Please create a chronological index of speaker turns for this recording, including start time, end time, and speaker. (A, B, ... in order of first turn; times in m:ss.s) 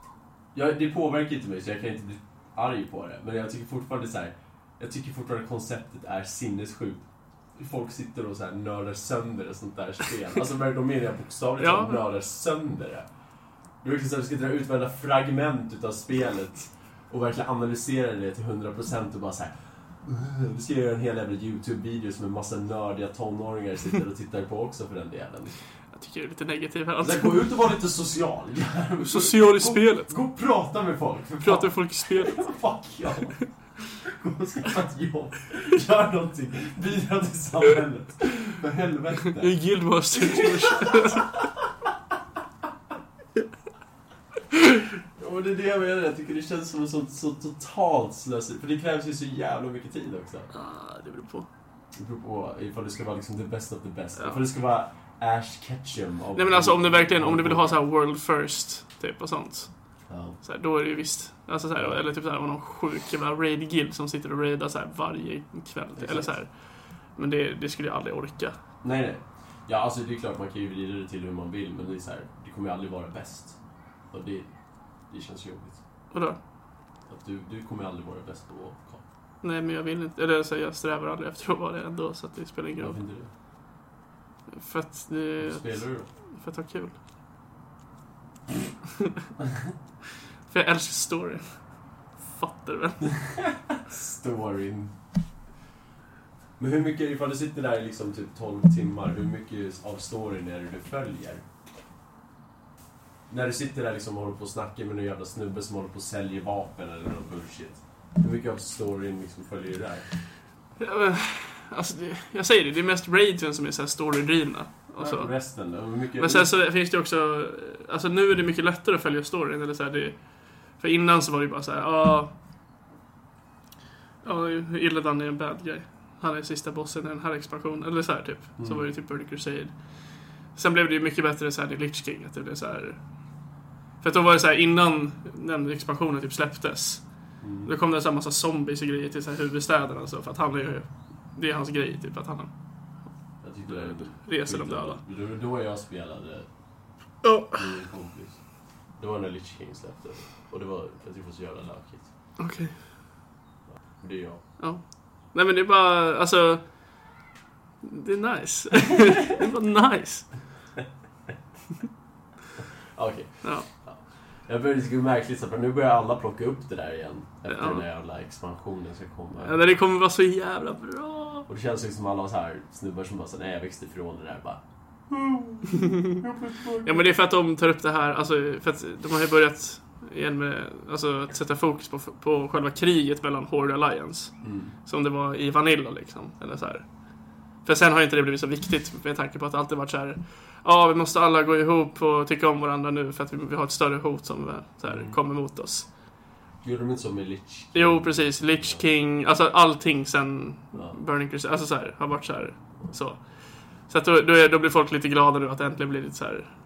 0:00.5-0:07.0 A
0:07.6-0:13.1 A
0:11.6-0:12.0 B
0:13.8-0:19.5 A
0:20.0-0:25.5 A
0:25.9-0:27.4 B
0:27.0-0:33.4 A
0:29.0-0:30.1 B
0:31.4-0:32.4 B
0:34.0-0:39.6 A
0:39.3-0:41.3 B
0:40.2-0:41.4 A
0:45.2-0:50.5 A
0:50.5-0:51.5 B
0:52.0-0:57.8 A
0:56.4-0:59.7 B
1:00.1-1:00.4 A
1:00.4-1:06.5 B
1:06.0-1:06.4 A
1:07.2-1:08.6 B
1:08.8-1:13.6 A
1:14.1-1:14.5 A
1:15.1-1:15.8 A
1:16.1-1:16.4 B
1:17.1-1:19.0 A
1:19.4-1:23.0 B
1:22.8-1:23.3 A
1:24.5-1:27.0 B
1:25.4-1:26.1 A
1:29.4-1:29.7 A
1:30.5-1:31.5 B
1:32.3-1:33.0 B
1:33.2-1:34.9 A
1:36.6-1:41.4 A
1:43.3-1:50.1 A
1:50.8-1:55.3 B
1:55.0-1:56.5 A
1:56.2-2:00.2 B
2:00.8-2:02.3 B
2:04.2-2:09.7 B
2:08.6-2:08.9 A
2:10.6-2:13.0 B
2:14.0-2:17.0 B
2:17.4-2:17.7 A
2:17.6-2:22.5 B
2:23.4-2:26.5 A
2:23.7-2:25.0 B
2:27.2-2:27.6 B
2:27.6-2:28.4 A
2:29.0-2:32.1 A
2:32.4-2:32.7 B
2:34.0-2:34.4 A
2:35.3-2:36.6 B
2:37.8-2:40.3 B
2:43.0-2:49.6 A
2:47.5-2:47.8 B
2:49.4-2:51.5 B
2:51.5-2:57.1 A
2:56.8-3:04.3 B
3:04.4-3:04.8 A
3:04.8-3:06.8 B
3:07.6-3:15.9 B
3:14.9-3:15.2 A
3:16.6-3:18.8 A
3:17.7-3:23.2 B
3:23.9-3:26.5 B